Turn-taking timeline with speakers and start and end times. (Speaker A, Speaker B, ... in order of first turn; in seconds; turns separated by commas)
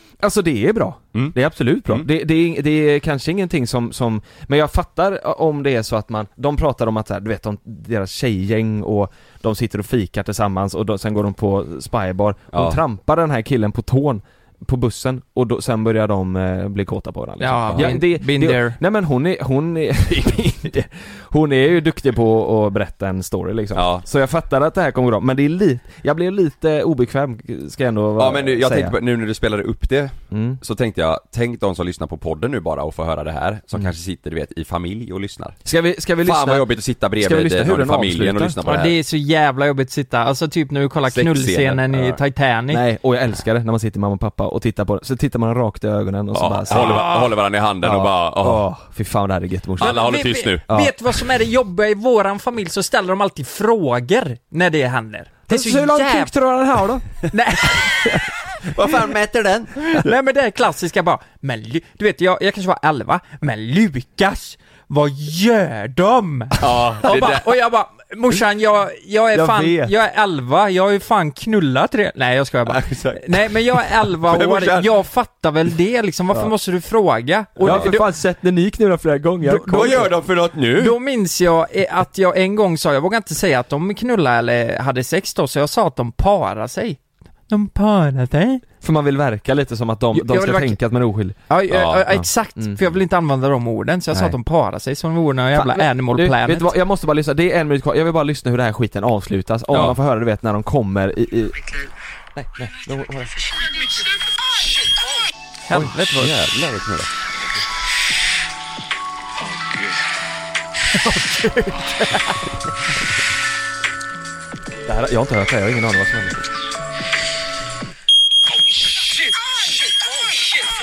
Speaker A: 0.2-28.9, Speaker B: 12.5-12.8, Speaker C: 17.4-18.8, Speaker B: 23.7-24.0, Speaker B: 28.2-35.6, Speaker A: 30.3-30.6, Speaker A: 35.6-38.6, Speaker B: 36.2-39.0, Speaker C: 38.6-42.8, Speaker B: 41.1-42.2, Speaker A: 42.7-47.1, Speaker B: 46.3-48.7, Speaker C: 46.7-47.3, Speaker A: 47.8-50.0, Speaker B: 49.8-50.6, Speaker C: 49.8-56.4, Speaker A: 55.5-57.1, Speaker C: 57.3-58.2, Speaker B: 58.6-59.8, Speaker C: 59.8-78.1, Speaker B: 66.6-67.5, Speaker A: 69.3-69.9, Speaker B: 72.7-74.9, Speaker B: 77.6-78.0, Speaker A: 77.6-80.1, Speaker B: 79.5-81.0, Speaker C: 80.8-88.7, Speaker A: 88.8-91.4, Speaker C: 90.1-90.8, Speaker C: 91.5-96.7, Speaker B: 91.7-92.0, Speaker A: 92.0-92.8, Speaker A: 94.1-94.4, Speaker A: 95.5-101.6, Speaker A: 102.3-103.4, Speaker C: 105.7-106.3, Speaker A: 105.7-106.5, Speaker B: 106.1-107.1, Speaker A: 111.4-111.9, Speaker A: 114.9-116.5